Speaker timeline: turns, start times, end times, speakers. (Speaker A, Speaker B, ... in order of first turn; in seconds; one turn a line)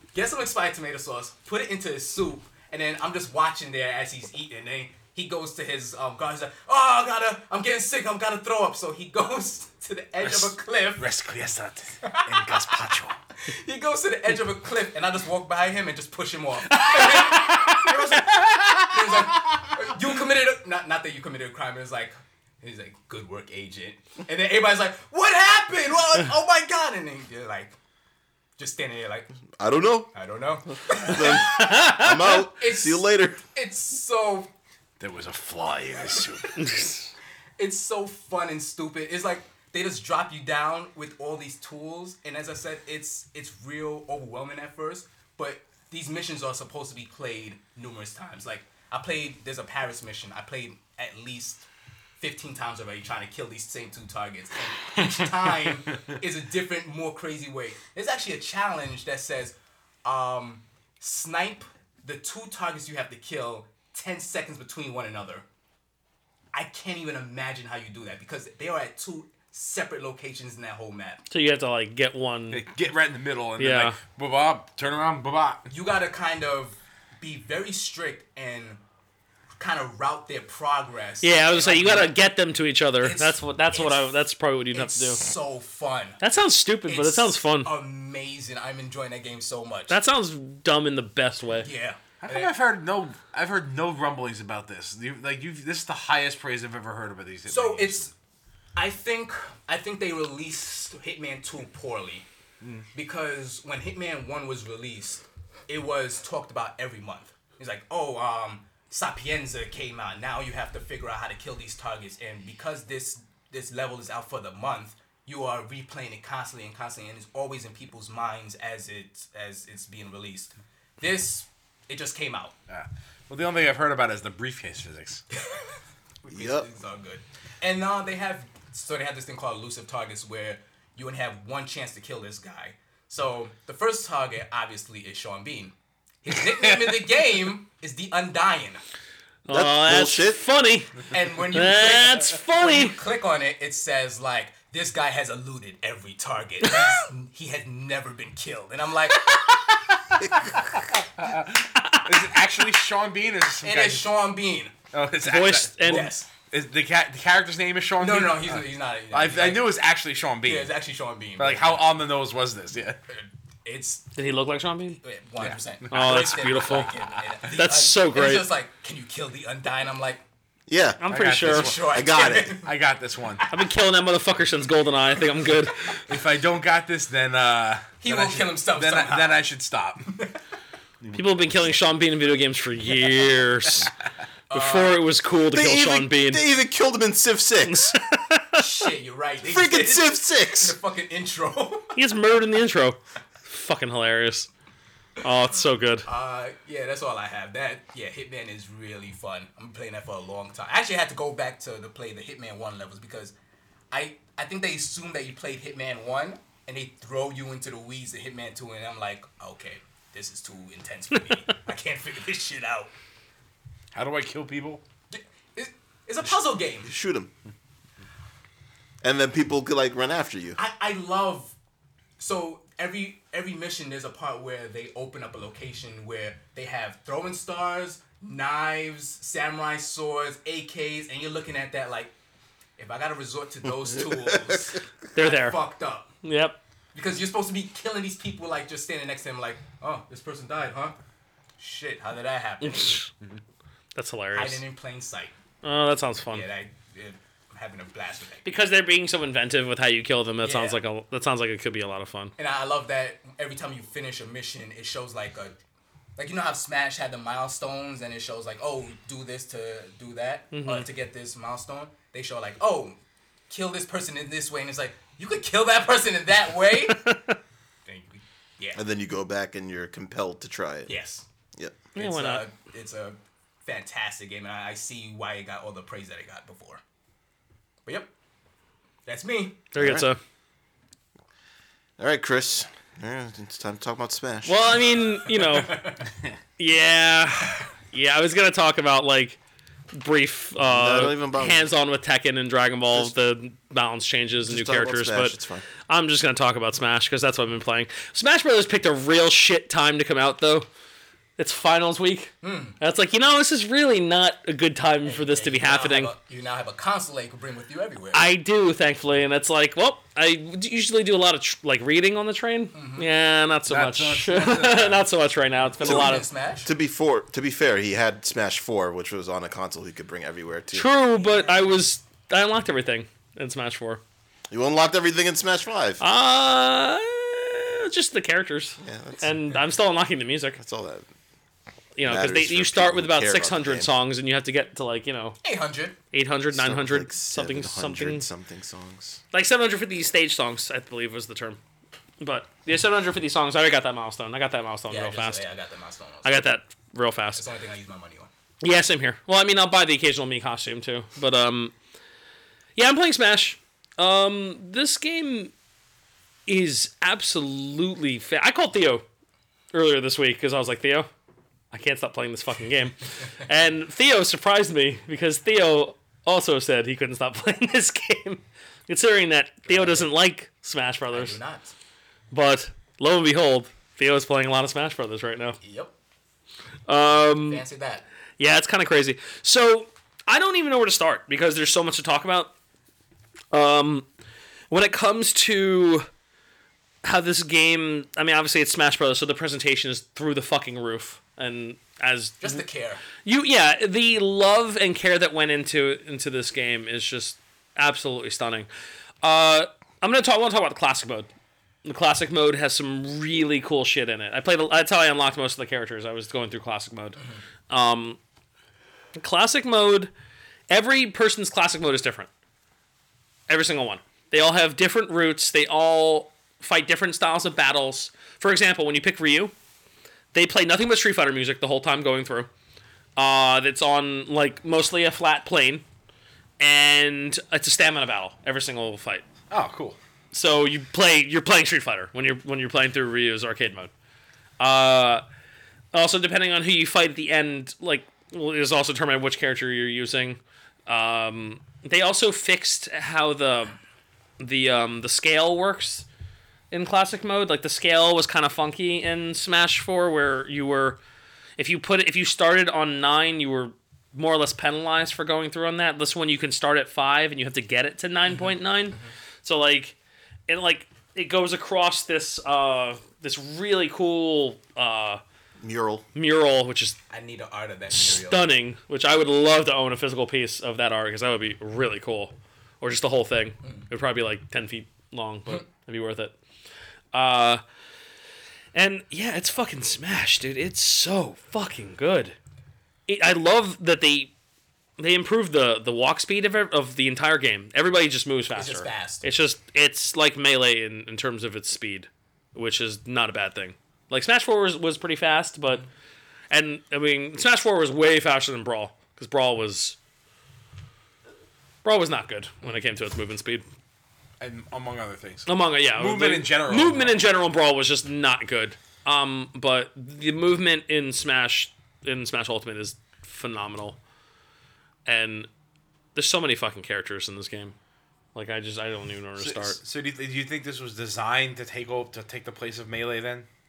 Speaker A: 0.1-11.1
Speaker B: 10.2-13.2
Speaker A: 12.0-12.8
Speaker A: 13.4-27.8
Speaker C: 16.9-17.7
Speaker B: 17.7-19.7
Speaker A: 28.6-29.3
Speaker D: 29.6-30.1
Speaker A: 30.1-34.5
Speaker D: 30.9-33.4
Speaker C: 31.6-32.1
Speaker B: 35.0-36.6
Speaker C: 36.6-37.1
Speaker A: 37.6-51.7
Speaker A: 52.2-65.4
Speaker A: 66.5-71.2
Speaker C: 71.3-72.6
Speaker B: 72.5-75.7
Speaker C: 73.6-74.0
Speaker A: 75.7-78.8
Speaker A: 79.6-82.1
Speaker C: 81.2-85.2
Speaker A: 83.0-84.1
Speaker A: 84.7-86.2
Speaker C: 86.2-87.7
Speaker A: 86.8-90.0
Speaker C: 89.9-91.7
Speaker A: 91.6-92.5
Speaker B: 92.2-98.0
Speaker A: 97.5-98.1
Speaker A: 98.8-102.2
Speaker B: 102.6-102.9
Speaker A: 102.9-122.5
Speaker B: 122.7-125.2
Speaker A: 126.2-138.8
Speaker D: 126.3-126.7
Speaker C: 139.4-143.0
Speaker D: 139.5-140.4
Speaker A: 141.1-149.4
Speaker B: 150.9-154.1
Speaker C: 151.8-152.2
Speaker A: 153.6-154.7
Speaker B: 154.9-160.7
Speaker C: 155.2-156.1
Speaker A: 155.8-156.3
Speaker A: 158.0-159.7
Speaker A: 160.4-161.9
Speaker B: 161.4-163.0
Speaker A: 163.1-164.1
Speaker C: 164.2-165.0
Speaker A: 165.0-170.2
Speaker B: 165.4-166.3
Speaker C: 165.9-166.9
Speaker C: 167.5-168.5
Speaker D: 170.7-171.1
Speaker C: 171.0-171.8
Speaker B: 171.1-171.9
Speaker A: 171.4-172.7
Speaker D: 171.8-172.6
Speaker B: 172.5-173.5
Speaker C: 173.5-176.1
Speaker B: 176.1-180.1
Speaker A: 178.0-179.4
Speaker A: 180.1-180.4
Speaker B: 181.0-181.7
Speaker C: 181.1-183.9
Speaker A: 184.5-185.0
Speaker C: 184.5-186.4
Speaker D: 185.5-187.9
Speaker C: 187.7-188.6
Speaker A: 188.5-192.0
Speaker D: 189.4-190.8
Speaker C: 191.9-194.5
Speaker C: 195.2-196.1
Speaker A: 196.0-203.3
Speaker A: 203.9-212.9
Speaker B: 213.9-214.8
Speaker A: 215.1-216.9
Speaker D: 216.8-217.3
Speaker D: 219.0-220.6
Speaker A: 220.6-221.6
Speaker A: 222.2-232.1
Speaker A: 232.8-236.1
Speaker D: 233.9-234.6
Speaker C: 235.1-235.6
Speaker C: 236.2-236.6
Speaker A: 236.9-240.9
Speaker A: 241.6-243.1
Speaker C: 242.6-243.1
Speaker C: 243.9-244.6
Speaker A: 244.3-245.3
Speaker C: 245.6-246.4
Speaker A: 246.3-248.5
Speaker C: 248.4-252.3
Speaker A: 250.4-250.8
Speaker A: 252.4-255.6
Speaker A: 256.2-263.0
Speaker C: 260.5-260.9
Speaker A: 263.5-267.0
Speaker C: 266.9-267.3
Speaker A: 267.9-268.8
Speaker D: 268.7-270.9
Speaker A: 270.9-271.2
Speaker D: 271.6-271.8
Speaker C: 271.9-272.4
Speaker A: 271.9-276.8
Speaker A: 279.1-279.6
Speaker C: 279.7-280.2
Speaker D: 279.8-280.1
Speaker D: 282.0-284.8
Speaker C: 284.4-285.9
Speaker A: 285.2-286.1
Speaker C: 286.6-289.4
Speaker C: 289.9-295.4
Speaker D: 290.6-291.7
Speaker D: 294.4-295.6
Speaker C: 295.9-300.7
Speaker C: 301.4-306.1
Speaker A: 302.4-302.8
Speaker A: 305.0-308.2
Speaker C: 308.1-316.2
Speaker A: 312.7-313.1
Speaker B: 313.7-315.0
Speaker A: 315.8-316.7
Speaker D: 315.8-320.9
Speaker C: 320.7-324.0
Speaker A: 321.1-321.8
Speaker D: 324.5-326.0
Speaker C: 326.0-330.6
Speaker D: 328.8-329.6
Speaker D: 330.6-331.1
Speaker C: 331.9-335.4
Speaker D: 332.0-333.9
Speaker A: 335.4-335.9
Speaker C: 336.1-338.2
Speaker D: 336.5-339.2
Speaker C: 339.3-341.6
Speaker C: 342.2-345.4
Speaker A: 344.9-346.4
Speaker C: 346.2-347.4
Speaker A: 347.3-348.3
Speaker C: 348.6-351.7
Speaker C: 352.8-355.5
Speaker C: 356.5-359.0
Speaker C: 359.7-361.1
Speaker C: 361.7-371.4
Speaker A: 369.7-370.1
Speaker A: 371.1-371.7
Speaker C: 372.3-375.6
Speaker A: 375.6-375.9
Speaker C: 376.9-377.6
Speaker A: 377.4-378.1
Speaker C: 378.4-382.5
Speaker C: 383.5-384.1
Speaker C: 384.7-386.1
Speaker C: 387.0-392.6
Speaker A: 392.4-393.0
Speaker C: 393.2-398.7
Speaker C: 399.2-401.3
Speaker C: 401.8-407.2
Speaker C: 407.7-408.2
Speaker C: 409.1-410.1
Speaker C: 410.7-412.3
Speaker C: 413.5-419.5
Speaker C: 420.3-422.5
Speaker C: 423.1-425.8
Speaker C: 426.6-429.2
Speaker B: 429.5-430.0
Speaker C: 430.3-433.9
Speaker C: 434.6-435.2
Speaker C: 435.9-443.8
Speaker C: 444.4-446.1
Speaker C: 446.7-451.0
Speaker C: 451.6-459.9
Speaker C: 460.5-465.2
Speaker D: 465.6-466.0
Speaker C: 466.1-467.0
Speaker A: 467.1-468.5
Speaker C: 467.9-476.3
Speaker C: 477.1-477.6
Speaker C: 478.7-482.3
Speaker C: 483.1-484.3
Speaker C: 485.0-495.9
Speaker A: 488.5-489.2
Speaker C: 496.5-499.9
Speaker C: 501.8-503.6
Speaker B: 504.4-507.2
Speaker C: 505.5-514.0
Speaker C: 515.0-515.5
Speaker C: 516.1-517.7
Speaker C: 518.3-519.8
Speaker B: 519.4-523.5